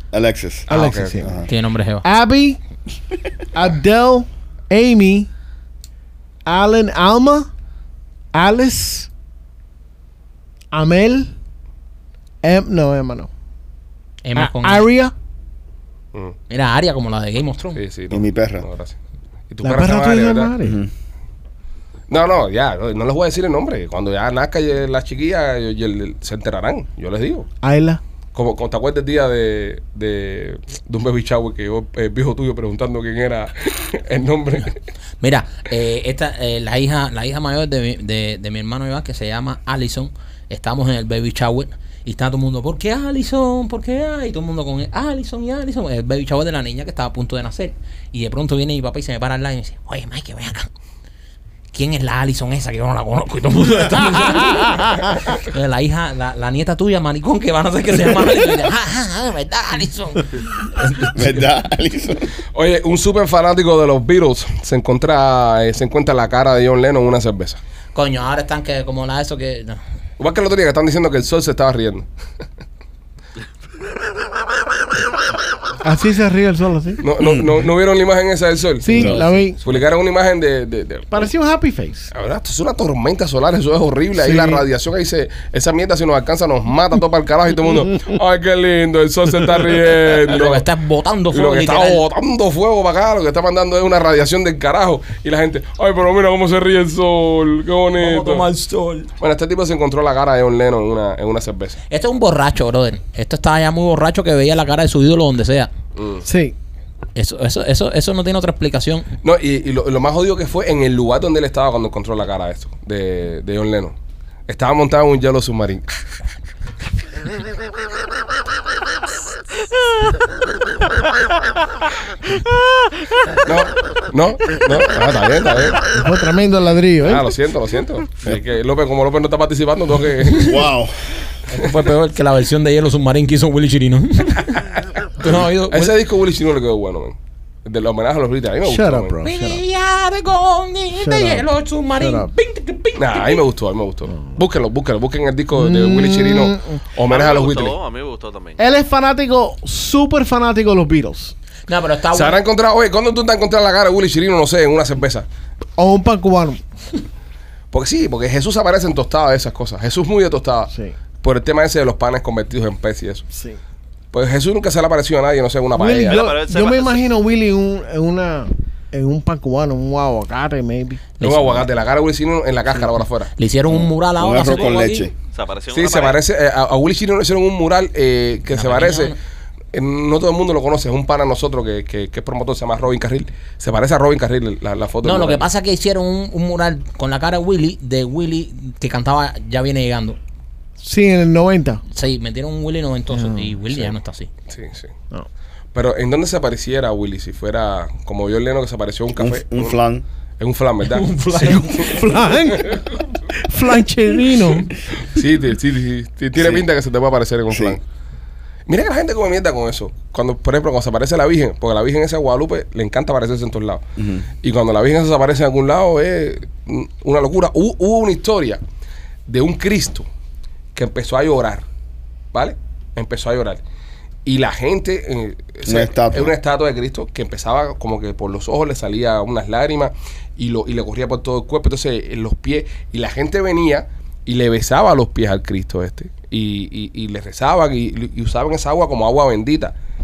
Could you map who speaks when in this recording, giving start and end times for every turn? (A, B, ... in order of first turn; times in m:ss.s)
0:00.1-0:01.5 A
0:00.7-0:01.3 B
0:00.7-0:01.4 C
0:01.5-0:02.0 D
0:02.0-0:02.6 C
0:03.5-0:05.3 C
0:06.4-0:07.5 C
0:08.3-0:09.1 C
0:10.7-0:11.3 C
0:12.4-0:13.3 C
0:14.2-0:14.8 D
0:14.4-0:15.1 C
0:16.5-0:17.8 D
0:17.8-0:18.9 B
0:18.1-0:18.6 A
0:19.5-0:20.5 B
0:19.6-0:20.8 C
0:20.6-0:20.9 A
0:22.1-0:27.5 B
0:27.6-0:28.0 C
0:28.3-0:34.8 B
0:35.2-0:50.7 D
0:51.7-1:01.3 D
1:01.1-1:02.4 A
1:02.5-1:07.6 B
1:07.9-1:09.8 D
1:10.2-1:12.0 B
1:15.8-1:17.0 C
1:17.0-1:21.3 B
1:18.8-1:19.6 C
1:18.9-1:19.8 D
1:21.1-1:22.1 C
1:22.1-1:30.6 B
1:24.2-1:24.6 C
1:30.3-1:32.0 D
1:31.3-1:38.5 B
1:38.0-1:39.1 D
1:39.2-1:41.8 B
1:41.9-1:45.7 D
1:46.0-1:46.2 B
1:46.2-1:46.5 C
1:47.2-1:49.1 D
1:49.2-1:54.0 B
1:54.5-1:56.0 B
2:03.4-2:05.8 B
2:05.9-2:07.3 C
2:07.0-2:10.5 B
2:10.4-2:11.3 A
2:11.5-2:14.7 D
2:15.2-2:15.9 D
2:15.2-2:19.2 B
2:18.6-2:19.6 C
2:19.2-2:23.4 D
2:21.0-2:21.5 C
2:22.0-2:22.3 C
2:23.0-2:27.8 B
2:25.5-2:26.8 C
2:27.1-2:28.6 E
2:28.6-2:31.3 C
2:31.7-2:32.4 D
2:32.1-2:35.2 B
2:35.8-2:36.6 C
2:37.7-2:43.2 B
2:43.3-2:43.6 C
2:44.1-2:46.3 B
2:45.8-2:51.0 C
2:46.1-2:47.0 E
2:51.2-2:51.7 D
2:51.2-2:53.3 B
2:53.4-2:55.1 D
2:53.7-2:55.1 A
2:55.3-2:56.2 E
2:55.7-2:59.1 B
2:58.5-2:59.2 D
2:59.7-3:05.4 B
3:05.0-3:10.2 D
3:10.8-3:11.8 C
3:11.9-3:14.3 D
3:13.1-3:13.5 C
3:14.5-3:14.9 B
3:15.7-3:19.8 B
3:19.2-3:20.0 A
3:20.4-3:22.9 B
3:20.9-3:22.0 D
3:21.3-3:24.8 C
3:24.9-3:27.8 B
3:26.4-3:26.7 A
3:27.5-3:27.8 A
3:28.7-3:33.8 B
3:34.0-3:34.3 A
3:34.4-3:38.6 B
3:39.3-3:40.0 B
3:40.7-3:41.6 B
3:42.3-3:43.6 B
3:44.2-3:59.7 B
3:45.6-3:46.3 A